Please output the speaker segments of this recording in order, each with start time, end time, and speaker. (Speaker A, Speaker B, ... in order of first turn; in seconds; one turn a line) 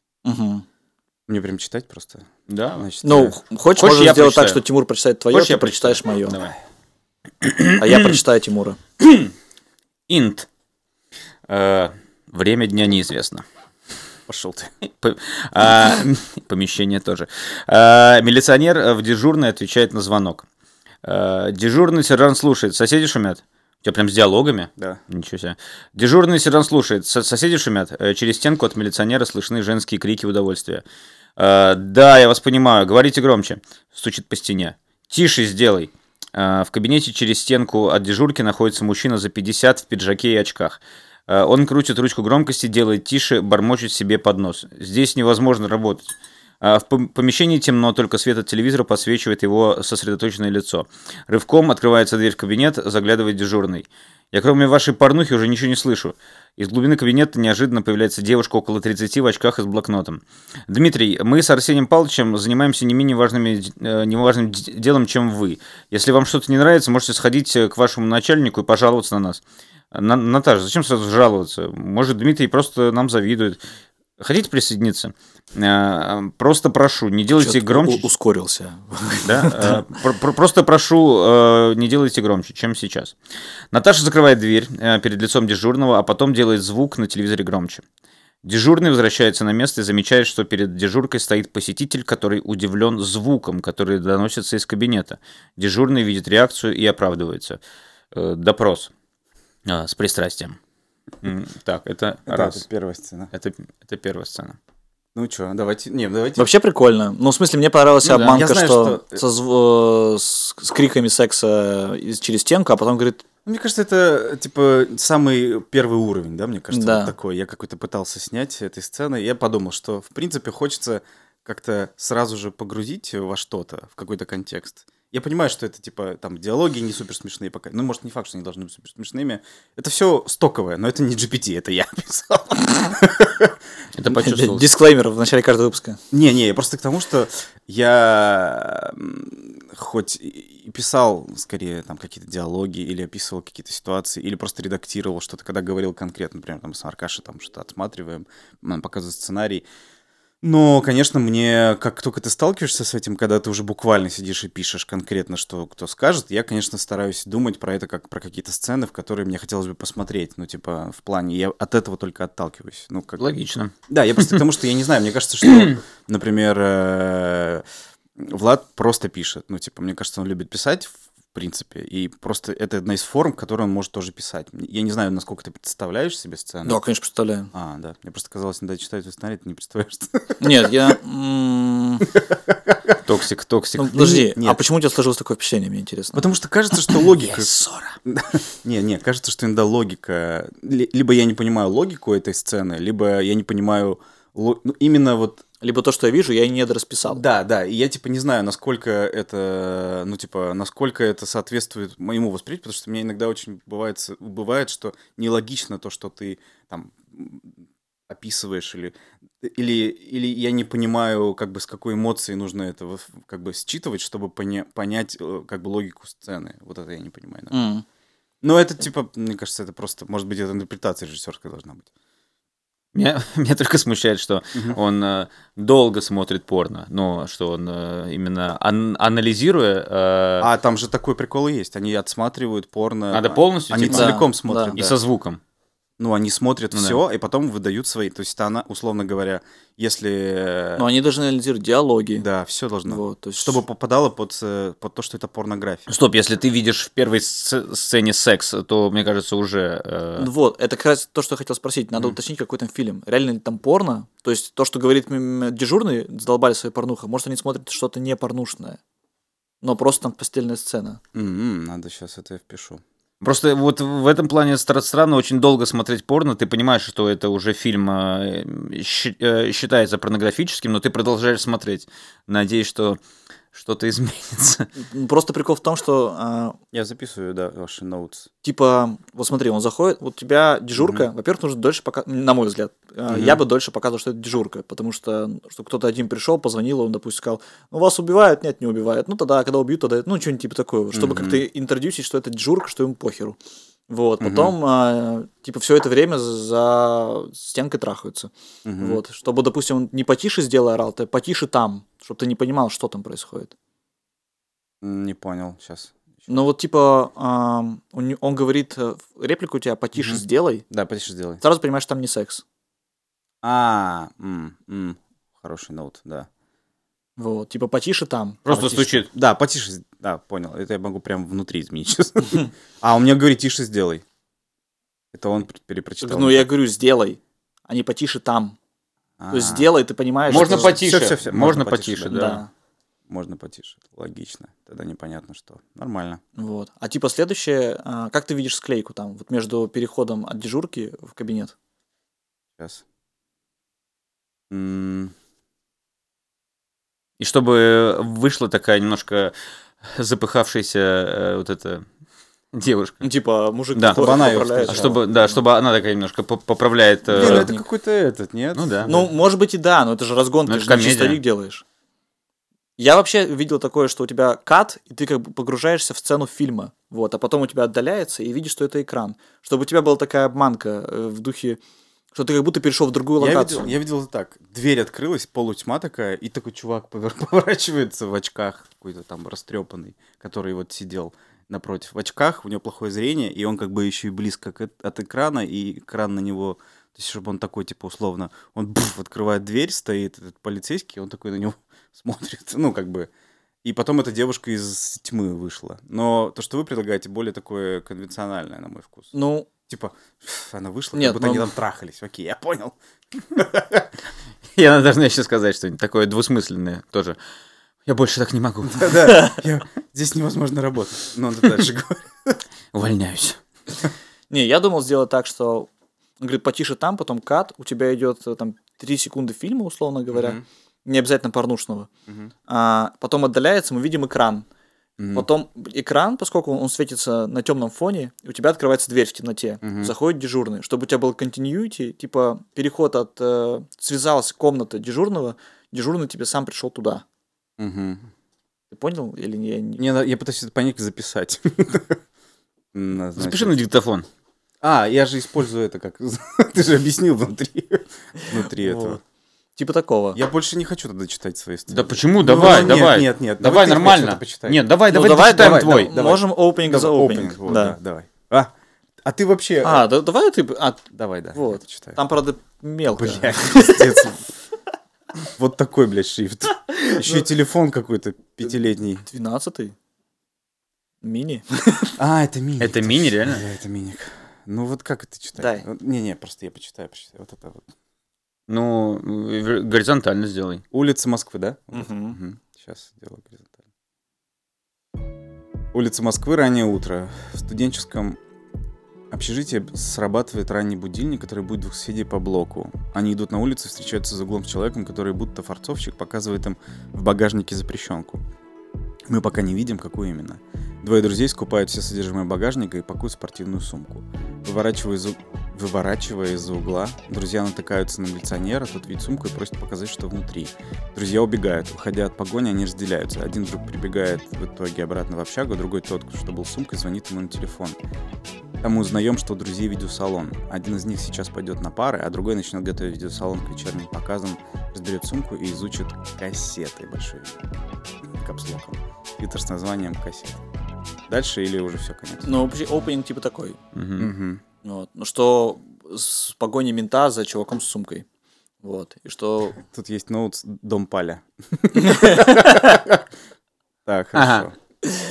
Speaker A: 0.2-0.6
Speaker B: 1.3-3.4
Speaker C: 2.5-2.9
Speaker A: 3.0-6.4
Speaker C: 3.8-4.6
Speaker C: 5.3-6.5
Speaker C: 7.4-8.2
Speaker A: 7.8-8.8
Speaker C: 9.0-9.3
Speaker C: 10.1-10.5
Speaker C: 11.5-13.4
Speaker B: 14.3-14.7
Speaker C: 14.8-20.4
Speaker C: 21.0-30.8
Speaker C: 31.4-69.4
Speaker C: 69.9-73.6
Speaker C: 74.2-78.1
Speaker A: 77.4-79.8
Speaker C: 79.2-83.2
Speaker C: 83.7-87.8
Speaker C: 88.4-97.6
Speaker C: 98.1-98.9
Speaker C: 99.7-100.6
Speaker C: 101.2-102.6
Speaker B: 102.3-103.3
Speaker C: 103.3-104.6
Speaker B: 105.1-106.5
Speaker A: 106.4-113.2
Speaker C: 108.0-108.3
Speaker B: 108.1-109.2
Speaker B: 113.5-133.6
Speaker A: 116.7-117.1
Speaker C: 133.9-134.7
Speaker A: 134.1-136.0
Speaker B: 136.1-149.6
Speaker B: 150.4-163.2
Speaker C: 163.2-164.4
Speaker B: 163.9-167.6
Speaker C: 165.4-165.7
Speaker B: 168.2-176.8
Speaker A: 176.6-177.5
Speaker B: 177.5-180.9
Speaker A: 180.4-182.1
Speaker B: 182.3-183.0
Speaker C: 183.0-184.1
Speaker A: 183.8-186.3
Speaker B: 183.9-184.6
Speaker B: 186.1-195.4
Speaker C: 187.4-187.7
Speaker A: 195.6-197.2
Speaker B: 197.0-217.6
Speaker A: 217.5-217.8
Speaker B: 218.4-221.9
Speaker C: 222.9-230.5
Speaker B: 230.4-235.0
Speaker C: 233.1-235.4
Speaker A: 233.9-234.8
Speaker B: 236.0-240.9
Speaker C: 236.7-237.0
Speaker A: 240.8-242.2
Speaker B: 242.2-245.9
Speaker A: 242.8-243.6
Speaker C: 245.9-250.3
Speaker A: 250.2-258.8
Speaker A: 259.6-261.0
Speaker B: 261.1-262.8
Speaker C: 263.2-273.0
Speaker C: 273.5-274.7
Speaker A: 274.8-276.6
Speaker B: 276.7-278.3
Speaker A: 278.4-293.4
Speaker B: 280.8-281.1
Speaker B: 283.1-283.4
Speaker B: 290.9-291.4
Speaker A: 293.9-303.5
Speaker B: 294.2-294.5
Speaker B: 298.6-299.0
Speaker B: 304.8-306.3
Speaker A: 306.3-310.6
Speaker B: 309.9-311.4
Speaker A: 311.4-312.4
Speaker B: 313.4-316.3
Speaker A: 317.2-318.5
Speaker C: 318.5-319.1
Speaker B: 318.5-324.0
Speaker B: 325.1-326.5
Speaker A: 326.0-328.6
Speaker B: 329.2-329.7
Speaker A: 329.3-330.8
Speaker C: 330.3-332.4
Speaker B: 330.3-332.2
Speaker A: 332.1-332.5
Speaker B: 333.1-336.2
Speaker A: 336.4-341.5
Speaker B: 342.6-342.8
Speaker B: 344.5-345.1
Speaker C: 347.2-351.8
Speaker C: 352.5-353.1
Speaker A: 353.0-355.4
Speaker C: 353.7-354.1
Speaker B: 353.9-355.0
Speaker C: 354.7-357.5
Speaker B: 357.1-359.1
Speaker A: 357.1-357.6
Speaker C: 358.5-358.9
Speaker A: 358.8-361.6
Speaker C: 360.5-361.2
Speaker A: 362.8-371.6
Speaker A: 372.1-373.8
Speaker B: 373.2-393.1
Speaker B: 393.6-399.1
Speaker A: 399.1-399.5
Speaker B: 399.7-402.8
Speaker A: 400.9-401.5
Speaker B: 403.3-403.9
Speaker C: 404.5-407.2
Speaker C: 407.9-409.3
Speaker B: 408.7-412.4
Speaker C: 412.7-413.4
Speaker A: 414.3-415.7
Speaker A: 416.2-421.9
Speaker B: 420.1-420.4
Speaker A: 422.5-424.4
Speaker B: 425.0-425.3
Speaker A: 425.1-437.0
Speaker B: 429.6-429.9
Speaker B: 437.6-438.1
Speaker A: 438.7-439.8
Speaker B: 439.8-442.0
Speaker B: 442.7-443.6
Speaker C: 443.2-444.1
Speaker B: 444.6-449.0
Speaker A: 448.2-449.0
Speaker A: 449.6-450.2
Speaker B: 450.1-454.6
Speaker C: 451.7-456.0
Speaker A: 454.9-457.8
Speaker B: 455.2-459.9
Speaker A: 459.6-460.8
Speaker B: 460.9-462.0
Speaker A: 461.3-464.1
Speaker B: 462.9-464.2
Speaker B: 465.3-469.1
Speaker A: 466.8-467.2
Speaker A: 469.1-469.8
Speaker A: 471.0-471.9
Speaker B: 472.0-477.7
Speaker C: 472.6-473.4
Speaker A: 475.4-475.6
Speaker C: 478.5-480.6
Speaker B: 480.7-483.6
Speaker A: 481.7-482.2
Speaker B: 485.7-488.2
Speaker B: 489.1-498.2
Speaker B: 499.1-517.8
Speaker B: 518.6-527.4
Speaker B: 528.0-530.4
Speaker B: 531.1-532.3
Speaker A: 532.2-533.6
Speaker C: 533.7-534.1
Speaker B: 534.0-534.4
Speaker A: 534.6-538.0
Speaker A: 538.6-539.6
Speaker B: 539.6-543.0
Speaker A: 541.7-542.8
Speaker B: 543.9-544.6
Speaker C: 544.1-544.5